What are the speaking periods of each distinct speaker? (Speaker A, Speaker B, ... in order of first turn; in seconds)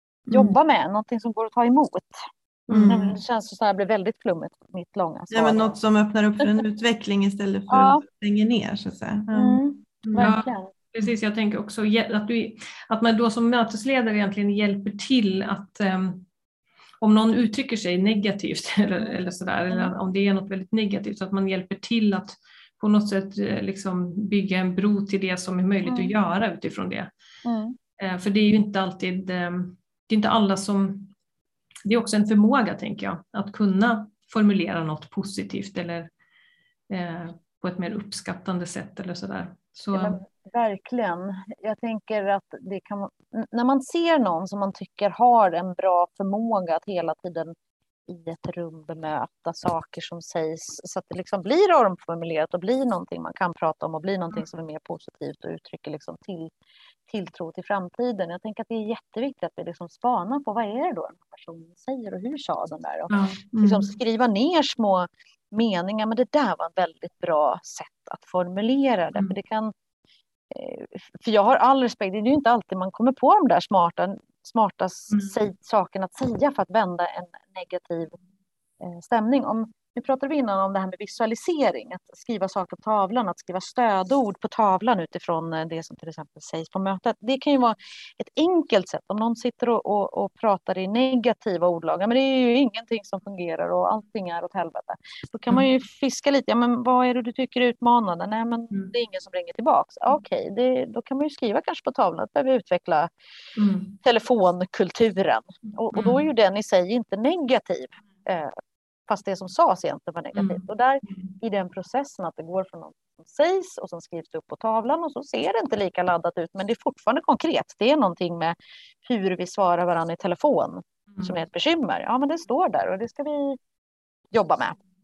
Speaker A: 0.3-0.6, 2.7-3.2, 5.3-10.3, 63.5-63.9
Speaker B: 0.3-5.8, 7.7-8.0, 9.3-10.7, 25.9-26.1, 27.4-27.8, 39.9-47.5, 48.1-56.5, 57.1-69.7, 70.5-78.2, 78.8-103.1, 104.0-108.5, 109.1-123.6, 124.3-124.8
Speaker C: 10.2-16.3, 17.0-27.1, 28.0-31.1, 31.9-36.1, 36.9-40.2, 63.1-63.4, 103.6-104.0, 105.9-106.3, 110.3-110.6